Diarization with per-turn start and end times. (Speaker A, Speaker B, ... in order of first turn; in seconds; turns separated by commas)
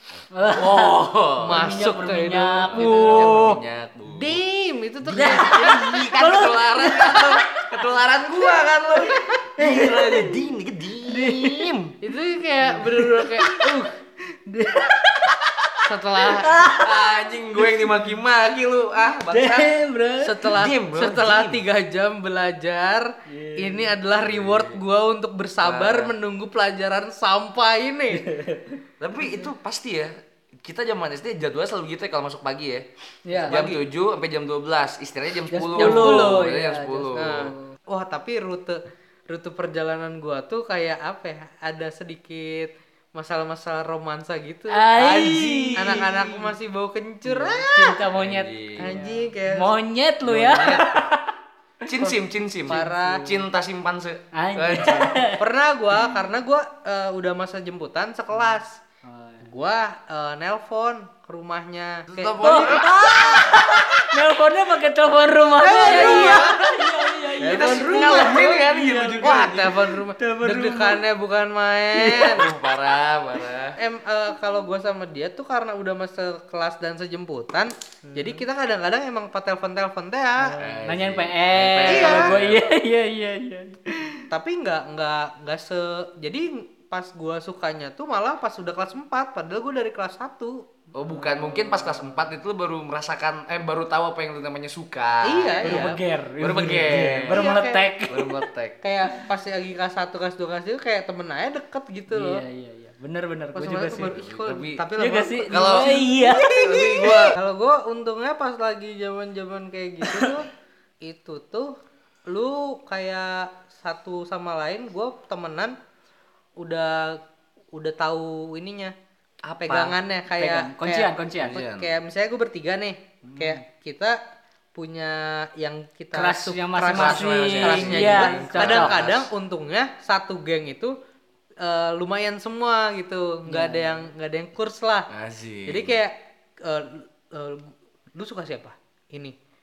Speaker A: 0.3-3.6, Speaker B: 0.5-1.8, Speaker C: 1.4-6.1, Speaker B: 2.6-4.4, Speaker B: 5.0-12.0, Speaker A: 5.1-7.7, Speaker A: 9.2-10.5, Speaker A: 11.0-11.7, Speaker C: 12.0-13.8, Speaker A: 12.6-15.4, Speaker B: 15.3-15.7, Speaker C: 15.8-16.6, Speaker A: 16.2-17.9, Speaker B: 16.3-19.8, Speaker A: 19.3-20.5, Speaker C: 20.2-28.3, Speaker B: 20.4-21.6, Speaker A: 23.3-23.9, Speaker B: 24.2-24.8, Speaker B: 25.6-26.1, Speaker A: 28.1-28.8, Speaker B: 29.0-32.9, Speaker A: 33.2-33.7, Speaker C: 33.3-33.8, Speaker B: 33.5-37.5, Speaker A: 35.5-37.7, Speaker C: 35.8-36.5, Speaker C: 37.2-48.0, Speaker A: 44.7-46.3, Speaker B: 45.0-46.3, Speaker A: 47.3-51.3, Speaker B: 48.1-49.0, Speaker C: 48.8-49.7, Speaker B: 50.2-51.0, Speaker B: 51.8-55.2, Speaker C: 52.7-53.4, Speaker A: 52.7-53.3, Speaker A: 54.3-55.4, Speaker C: 55.4-58.8, Speaker A: 59.0-59.5, Speaker C: 59.4-62.9, Speaker B: 62.1-64.2, Speaker A: 62.4-71.0, Speaker C: 65.6-66.7, Speaker B: 65.8-66.7, Speaker B: 67.4-70.0, Speaker C: 67.4-72.5, Speaker A: 72.0-72.4, Speaker B: 72.0-73.8, Speaker C: 73.8-80.6, Speaker A: 78.1-78.4, Speaker A: 80.4-84.2, Speaker B: 80.6-82.7, Speaker C: 81.9-82.3, Speaker C: 84.3-90.6, Speaker B: 90.9-97.4, Speaker A: 91.2-92.0, Speaker C: 95.2-96.0, Speaker A: 95.6-98.4, Speaker C: 97.3-97.9, Speaker B: 98.1-98.8, Speaker C: 98.8-102.4, Speaker A: 102.1-104.1, Speaker C: 103.5-110.5, Speaker B: 104.0-104.8, Speaker A: 105.0-106.9, Speaker B: 105.5-107.4, Speaker A: 110.0-110.3, Speaker C: 111.0-111.8, Speaker C: 112.3-115.8, Speaker C: 116.6-117.2, Speaker C: 117.7-118.9, Speaker B: 119.5-120.0, Speaker C: 119.6-124.2, Speaker A: 120.3-121.6, Speaker B: 121.4-121.9, Speaker A: 123.3-123.6, Speaker C: 124.8-130.9, Speaker A: 126.1-129.0, Speaker B: 126.9-129.3, Speaker C: 131.6-135.1, Speaker A: 133.5-134.1, Speaker B: 135.1-136.0, Speaker C: 135.7-139.3